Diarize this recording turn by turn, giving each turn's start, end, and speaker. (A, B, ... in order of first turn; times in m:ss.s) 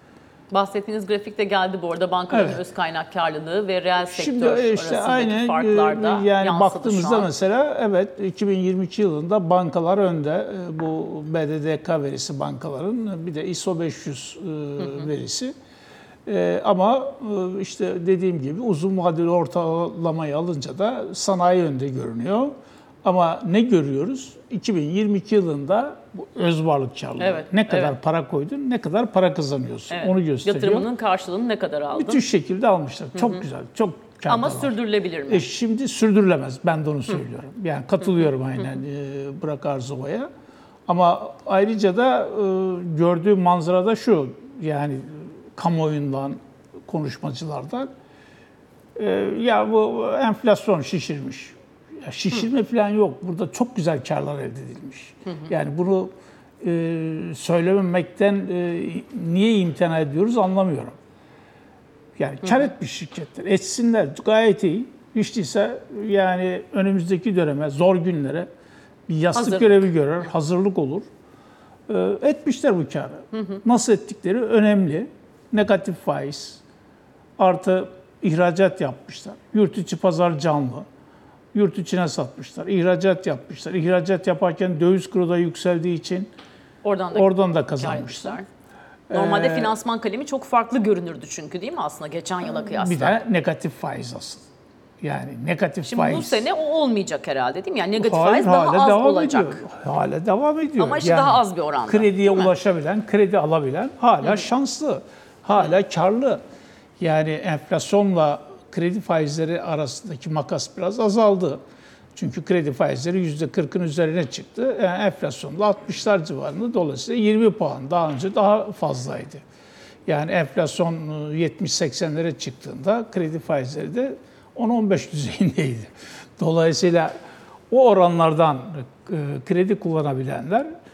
0:00.5-0:07.3 A
0:02.3-0:02.6 B
0:04.1-0:15.5 B
0:16.2-0:30.9 B
0:27.2-0:27.9 A
0:29.9-0:32.2 A
0:31.9-0:40.3 B
0:33.2-0:33.4 A
0:34.2-0:35.5 A
0:40.9-0:47.9 B
0:49.0-1:01.0 B
1:02.2-1:08.5 B
1:09.1-1:11.1 B
1:09.3-1:09.9 A
1:11.9-1:16.6 B
1:13.3-1:13.6 A
1:17.4-1:20.8 B
1:21.5-1:26.3 B
1:26.8-1:28.4 A
1:27.1-1:28.4 B
1:29.1-1:29.7 B
1:29.1-1:33.2 A
1:32.6-1:34.4 B
1:35.0-1:36.5 B
1:35.9-1:39.6 A
1:38.0-1:46.4 B
1:40.8-1:42.5 A
1:47.0-1:51.6 B
1:52.1-1:59.4 B
2:00.0-2:07.1 B
2:07.7-2:10.7 B